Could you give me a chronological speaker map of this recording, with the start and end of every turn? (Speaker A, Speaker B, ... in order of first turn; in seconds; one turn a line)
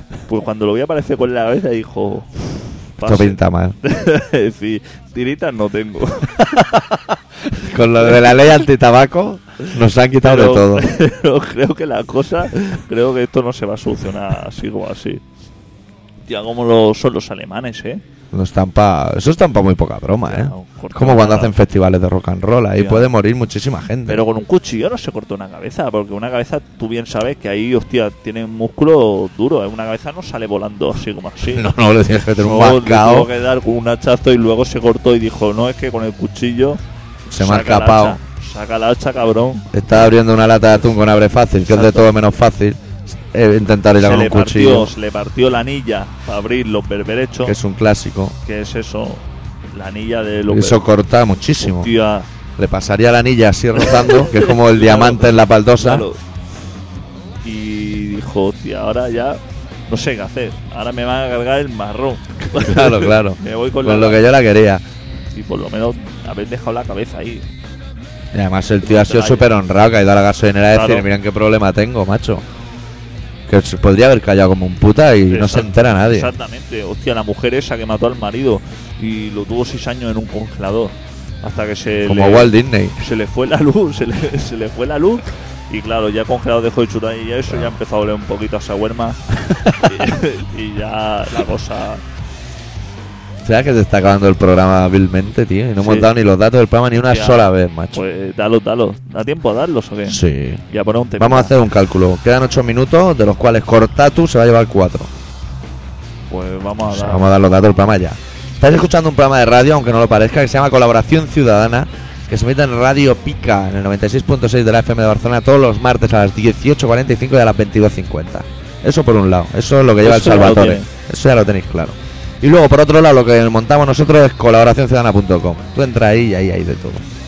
Speaker A: 0.2-6.5
Speaker B: 3.0-3.8
Speaker B: 6.4-10.9
Speaker A: 10.2-15.2
Speaker A: 16.3-18.0
Speaker B: 18.3-24.2
Speaker A: 20.3-21.5
Speaker A: 22.8-23.1
Speaker A: 24.1-31.6
Speaker B: 31.4-33.3
Speaker A: 32.4-36.8
Speaker B: 37.3-38.2
Speaker A: 37.4-39.7
Speaker B: 39.7-44.9
Speaker A: 41.7-42.1
Speaker A: 44.0-47.6
Speaker B: 47.4-48.4
Speaker A: 48.4-50.8
Speaker B: 50.5-51.9
Speaker A: 51.6-52.3
Speaker B: 52.6-56.1
Speaker A: 53.8-56.2
Speaker A: 57.4-64.2
Speaker B: 62.5-64.8
Speaker A: 65.3-67.5
Speaker B: 68.3-72.4
Speaker A: 68.8-69.5
Speaker A: 70.7-71.1
Speaker B: 73.5-76.3
Speaker A: 75.3-89.2
Speaker B: 82.0-83.0
Speaker B: 89.5-90.0
Speaker A: 89.8-92.0
Speaker B: 93.4-98.0
Speaker A: 95.8-96.1
Speaker A: 97.1-101.5
Speaker B: 100.1-100.6
Speaker B: 101.2-105.1
Speaker A: 106.3-107.3
Speaker B: 106.9-127.0
Speaker A: 120.0-120.9